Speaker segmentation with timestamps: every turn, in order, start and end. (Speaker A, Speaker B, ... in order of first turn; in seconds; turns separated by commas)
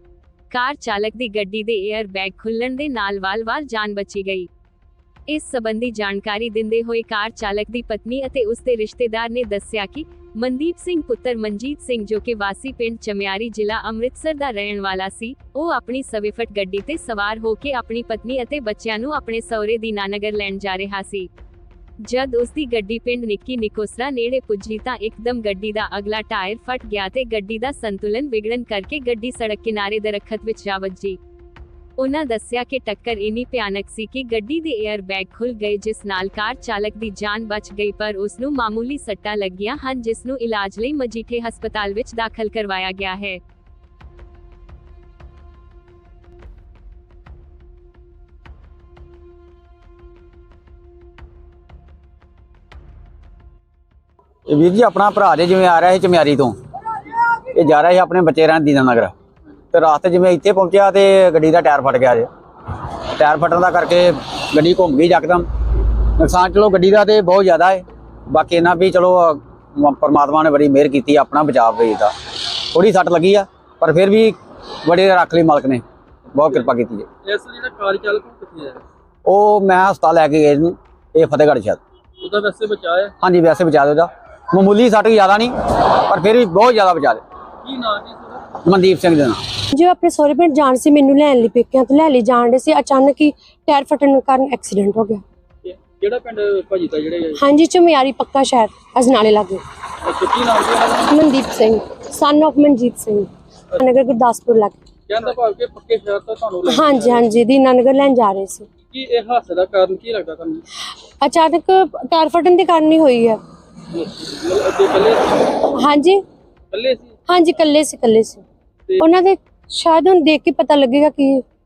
Speaker A: 0.5-4.5, Speaker A: 5.3-21.3, Speaker A: 22.0-31.2, Speaker A: 32.0-43.4, Speaker B: 54.5-56.6, Speaker B: 57.5-59.1, Speaker B: 59.7-62.3, Speaker B: 63.1-65.5, Speaker B: 66.2-75.8, Speaker B: 76.3-77.1, Speaker C: 77.2-78.8, Speaker B: 79.3-81.8, Speaker C: 82.2-83.1, Speaker B: 83.2-87.2, Speaker C: 87.6-88.5, Speaker B: 88.6-89.4, Speaker D: 89.7-95.2, Speaker C: 95.6-97.4, Speaker D: 97.4-99.6, Speaker C: 100.0-101.2, Speaker D: 101.1-104.8, Speaker C: 105.1-107.4, Speaker D: 106.7-108.7, Speaker C: 108.9-110.6, Speaker D: 111.2-113.4, Speaker C: 113.9-115.6, Speaker D: 115.8-116.2, Speaker C: 116.7-117.1, Speaker D: 117.3-118.4, Speaker D: 119.0-121.4